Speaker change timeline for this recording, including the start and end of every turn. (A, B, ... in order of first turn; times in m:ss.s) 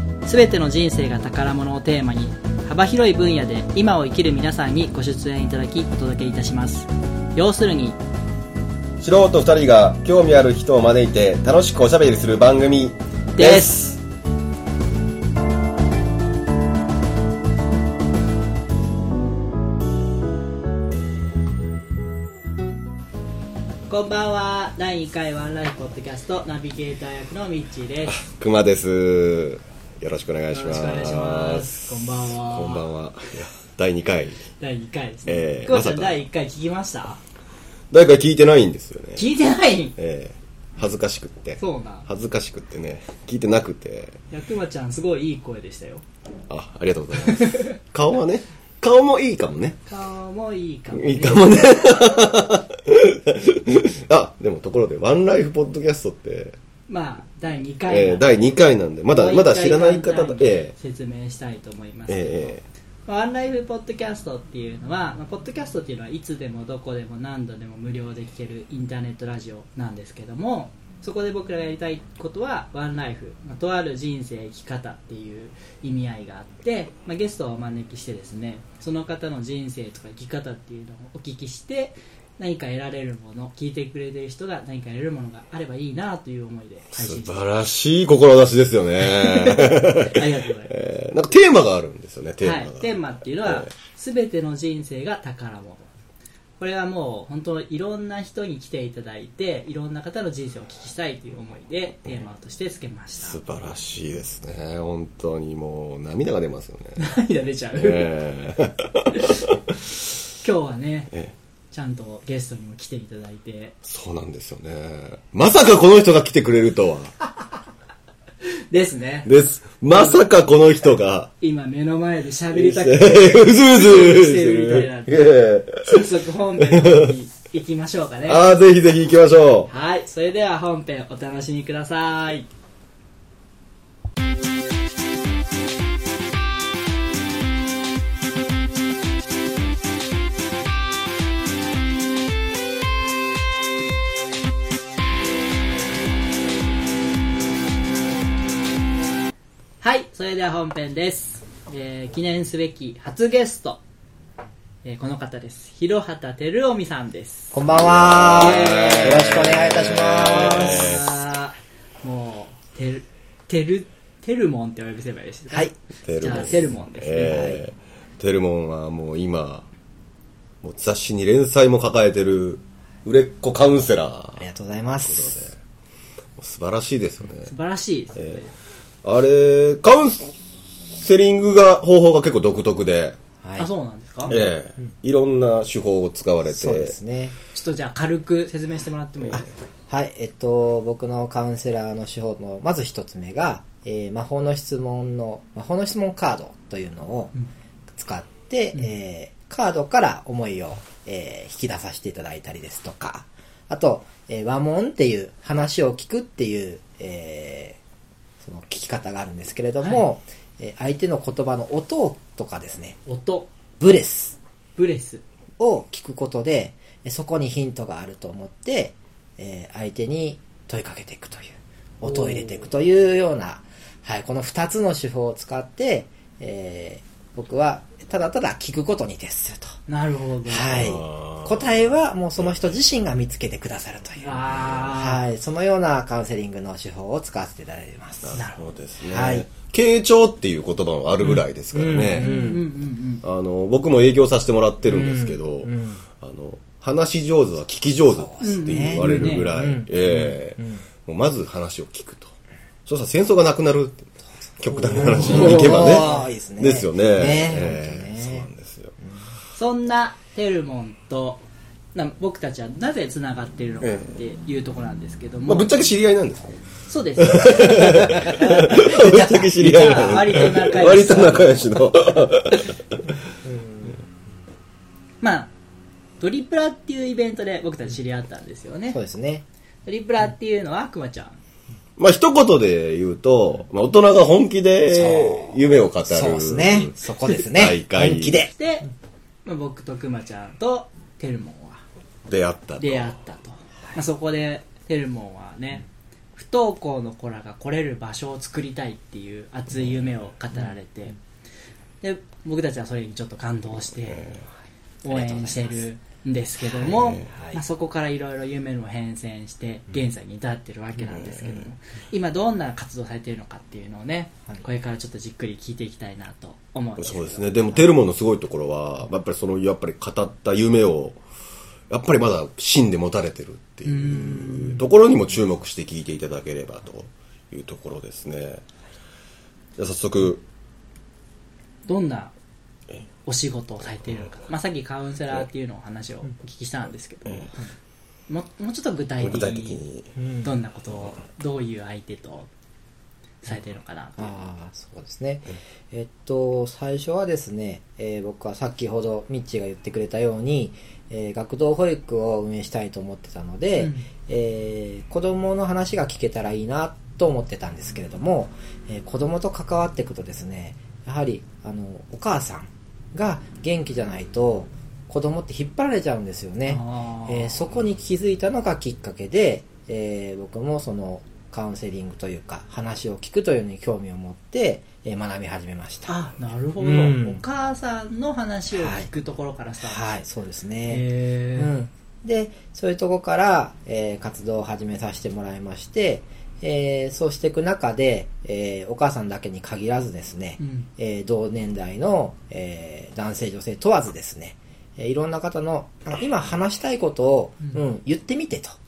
0:00.3-0:08.0 A
0:09.0-0:13.9 B
0:13.4-0:14.0 A
0:23.9-0:28.2 A
0:28.1-0:34.4 B
0:30.5-0:32.8 A
0:34.6-0:37.2 A
0:35.3-0:36.2 B
0:37.9-0:39.3 B
0:39.2-0:40.0 A
0:40.0-0:44.2 B
0:41.6-0:42.1 A
0:44.3-0:46.0 A
0:46.5-0:49.8 B
0:47.3-0:47.7 A
0:49.9-0:51.5 A
0:51.0-0:56.6 B
0:56.9-0:58.5 A
0:57.9-1:00.7 B
0:59.1-1:02.6 A
1:02.1-1:02.6 B
1:03.1-1:27.5 A
1:27.0-1:33.7 B
1:29.1-1:30.7 A
1:32.4-1:35.9 A
1:36.6-1:43.4 A
1:43.2-1:47.0 B
1:47.0-1:48.1 A
1:47.8-1:49.6 B
1:49.1-1:49.5 A
1:50.4-1:51.1 A
1:51.7-1:53.8 A
1:53.8-1:57.2 B
1:58.7-1:59.3 A
1:59.3-2:01.3 B
1:59.9-2:00.2 A
2:01.4-2:05.3 A
2:02.5-2:06.1 B
2:05.8-2:08.4 A
2:06.6-2:07.1 B
2:08.3-2:09.7 B
2:09.7-2:12.5 A
2:29.8-2:33.8 A
2:34.8-2:47.5 A
2:37.5-2:41.0 C
2:37.7-2:41.1 B
2:46.0-2:49.7 B
2:47.2-2:47.6 C
2:50.6-2:54.5 B
2:54.4-2:55.4 C
2:55.1-2:55.6 B
2:56.4-2:57.5 B
2:57.5-2:58.5 A
2:58.2-2:58.4 B
2:59.0-3:00.3 B
3:00.9-3:03.2 B
3:03.4-3:03.7 C
3:03.6-3:04.4 A
3:04.3-3:06.9 B
3:06.5-3:07.4 C
3:07.5-3:09.5 A
3:09.9-3:17.3 C
3:17.9-3:27.8 C
3:28.4-3:33.0 C
3:33.1-3:33.5 A
3:33.8-3:34.4 C
3:34.8-3:35.2 A
3:35.6-3:49.7 C
3:42.1-3:42.6 A
3:49.9-3:50.8 A
3:50.5-3:58.4 C
3:50.7-3:51.7 B
3:54.2-3:55.2 A
3:58.2-4:02.3 B
3:58.4-3:58.6 A
3:59.1-3:59.5 C
4:01.7-4:02.6 C
4:02.2-4:03.2 A
4:03.2-4:12.3 B
4:04.9-4:06.0 C
4:08.1-4:10.8 C
4:08.4-4:09.5 A
4:12.9-4:19.0 B
4:14.9-4:18.5 C
4:15.2-4:16.3 A
4:19.5-4:21.4 A
4:22.0-4:25.7 A
4:23.8-4:24.1 B
4:25.5-4:26.5 B
4:26.9-4:28.9 A
4:27.2-4:32.8 B
4:27.8-4:30.6 C
4:29.6-4:31.7 A
4:33.4-4:33.9 C
4:35.2-4:35.5 A
4:36.2-4:39.0 A
4:38.9-4:39.4 C
4:39.9-4:41.4 A
4:42.0-4:48.4 B
4:44.9-4:48.5 C
4:48.5-4:48.9 A
4:49.4-4:51.8 A
4:52.3-4:53.2 B
4:52.8-4:55.8 A
4:56.4-5:01.2 A
5:02.0-5:04.3 A
5:04.1-5:04.4 B
5:05.0-5:17.8 A
5:05.0-5:05.8 C
5:06.8-5:07.6 C
5:06.9-5:07.3 B
5:11.2-5:11.6 B
5:17.0-5:21.2 B
5:21.9-5:28.6 B
5:23.8-5:24.8 A
5:29.8-5:30.4 B
5:31.9-5:32.3 A
5:33.2-5:37.6 A
5:38.3-5:39.8 A
5:39.2-5:40.1 B
5:40.2-5:40.5 C
5:40.4-5:42.5 A
5:43.4-5:44.4 A
5:44.2-6:16.1 C
5:53.8-5:54.1 A
6:06.7-6:07.6 A
6:16.1-6:20.0 A
6:16.8-6:17.4 C
6:18.7-6:19.1 C
6:19.8-6:38.8 C
6:20.9-6:21.7 A
6:30.6-6:30.9 A